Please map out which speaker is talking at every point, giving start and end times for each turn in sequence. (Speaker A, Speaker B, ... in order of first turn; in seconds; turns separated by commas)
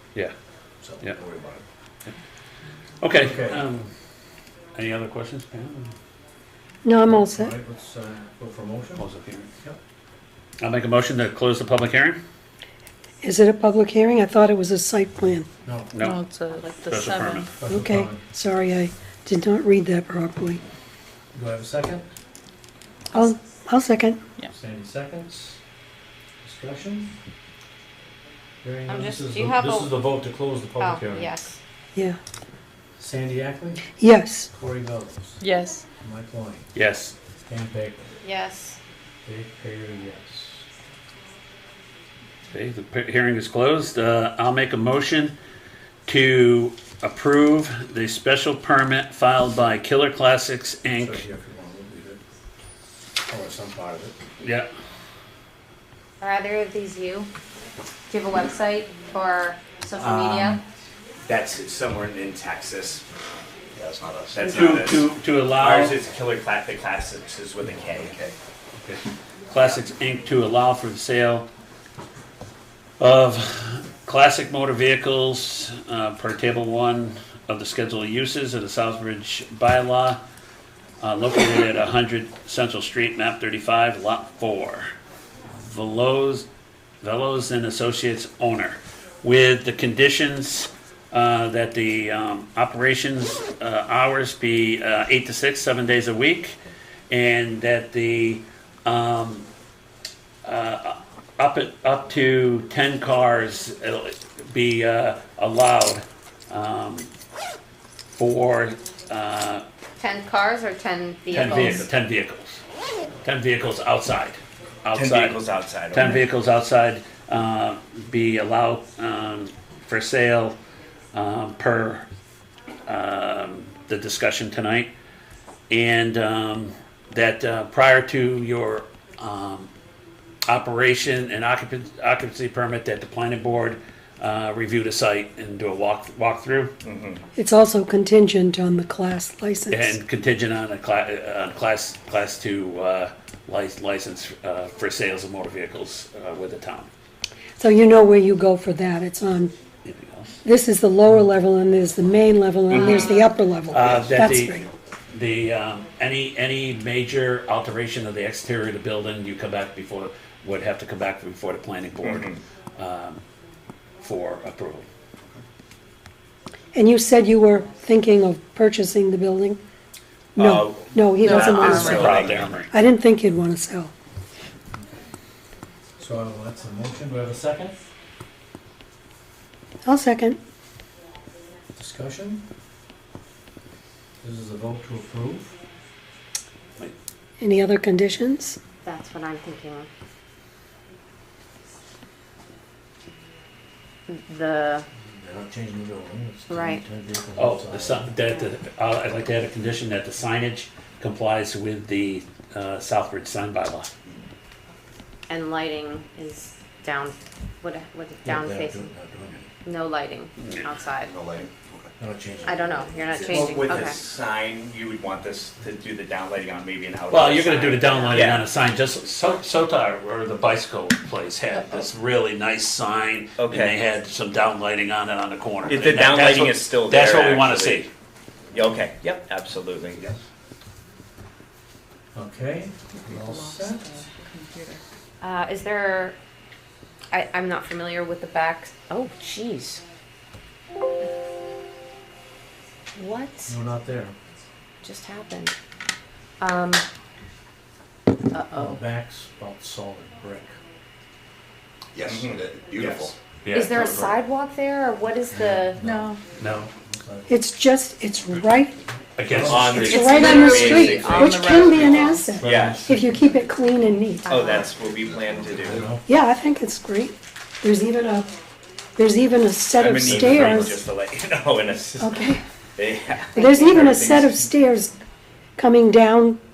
Speaker A: 0.8-1.6, Speaker B: 3.0-3.9, Speaker A: 3.1-3.7, Speaker B: 4.8-5.9, Speaker C: 6.8-7.5, Speaker A: 7.1-9.0, Speaker B: 9.0-9.5, Speaker B: 10.6-12.2, Speaker C: 13.2-15.5, Speaker A: 15.6-15.9, Speaker B: 15.9-16.2, Speaker D: 15.9-17.5, Speaker B: 16.8-17.5, Speaker A: 17.6-18.2, Speaker C: 17.7-20.6, Speaker A: 21.3-22.1, Speaker C: 23.1-24.2, Speaker A: 24.5-25.6, Speaker A: 26.4-27.1, Speaker A: 28.6-31.3, Speaker E: 28.9-29.9, Speaker E: 30.8-31.6, Speaker A: 33.0-33.9, Speaker C: 34.0-34.5, Speaker A: 34.5-35.4, Speaker D: 35.4-35.8, Speaker A: 36.0-36.7, Speaker B: 36.7-37.1, Speaker A: 37.5-38.2, Speaker E: 38.2-38.8, Speaker A: 39.2-40.7, Speaker B: 42.5-45.3, Speaker B: 46.1-51.2, Speaker A: 51.0-52.2, Speaker A: 53.2-54.2, Speaker B: 54.4-54.7, Speaker E: 56.2-57.3, Speaker E: 58.1-60.6, Speaker F: 60.0-60.6, Speaker F: 61.2-63.0, Speaker G: 63.8-64.8, Speaker F: 64.3-68.3, Speaker B: 64.4-66.0, Speaker B: 69.5-71.5, Speaker B: 73.0-80.2, Speaker B: 81.0-84.9, Speaker B: 85.5-86.5, Speaker B: 87.0-96.5, Speaker B: 97.1-99.5, Speaker B: 100.4-107.1, Speaker B: 108.1-109.6, Speaker E: 110.0-111.9, Speaker B: 111.3-112.6, Speaker B: 113.2-115.4, Speaker F: 114.9-116.2, Speaker B: 115.9-120.6, Speaker B: 121.1-122.1, Speaker B: 122.9-124.9, Speaker B: 125.7-129.7, Speaker B: 130.5-136.7, Speaker F: 136.8-137.2, Speaker C: 137.4-139.8, Speaker B: 139.7-146.9, Speaker C: 147.6-149.5, Speaker B: 149.8-150.4, Speaker C: 150.4-154.7, Speaker F: 152.7-153.1, Speaker B: 153.7-163.2, Speaker F: 162.0-162.4, Speaker B: 164.0-164.9, Speaker C: 166.7-169.6, Speaker C: 170.4-173.9, Speaker F: 170.4-172.4, Speaker B: 171.2-172.7, Speaker D: 171.5-172.1, Speaker G: 172.0-172.4, Speaker A: 176.0-177.8, Speaker C: 179.8-180.4, Speaker A: 181.8-182.4, Speaker A: 184.2-185.6, Speaker C: 187.4-188.6, Speaker E: 188.7-189.9, Speaker E: 194.1-194.9, Speaker A: 195.1-198.1, Speaker E: 196.5-196.8, Speaker B: 197.4-203.9, Speaker E: 205.3-208.9, Speaker A: 208.2-209.5, Speaker E: 209.6-211.1, Speaker G: 210.9-211.9, Speaker A: 212.0-212.8, Speaker E: 212.4-214.0, Speaker G: 213.1-213.8, Speaker F: 213.2-218.5, Speaker B: 217.1-227.9, Speaker E: 218.0-218.3, Speaker F: 223.4-223.8, Speaker F: 225.7-227.9, Speaker F: 228.5-230.2, Speaker A: 232.1-234.0, Speaker D: 232.9-234.8, Speaker E: 235.2-236.2, Speaker E: 237.1-239.8, Speaker E: 242.9-243.5, Speaker A: 243.5-244.2, Speaker E: 244.8-245.6, Speaker E: 246.4-246.9, Speaker E: 248.3-248.8, Speaker A: 248.5-250.5, Speaker G: 251.9-253.2, Speaker F: 252.0-253.1, Speaker B: 253.4-254.1, Speaker E: 253.5-255.8, Speaker A: 255.3-257.4, Speaker D: 255.8-256.2, Speaker B: 256.4-256.7, Speaker C: 257.3-258.8, Speaker B: 259.2-260.8, Speaker A: 259.3-259.8, Speaker F: 259.4-262.9, Speaker D: 259.8-262.4, Speaker C: 259.9-264.4, Speaker A: 262.3-263.3, Speaker E: 264.2-264.8, Speaker F: 264.3-265.9, Speaker G: 265.0-265.9, Speaker A: 265.5-266.1, Speaker C: 266.1-268.3, Speaker C: 269.0-270.8, Speaker F: 269.7-274.3, Speaker C: 272.0-272.4, Speaker E: 273.4-274.0, Speaker C: 273.4-275.0, Speaker C: 275.6-276.4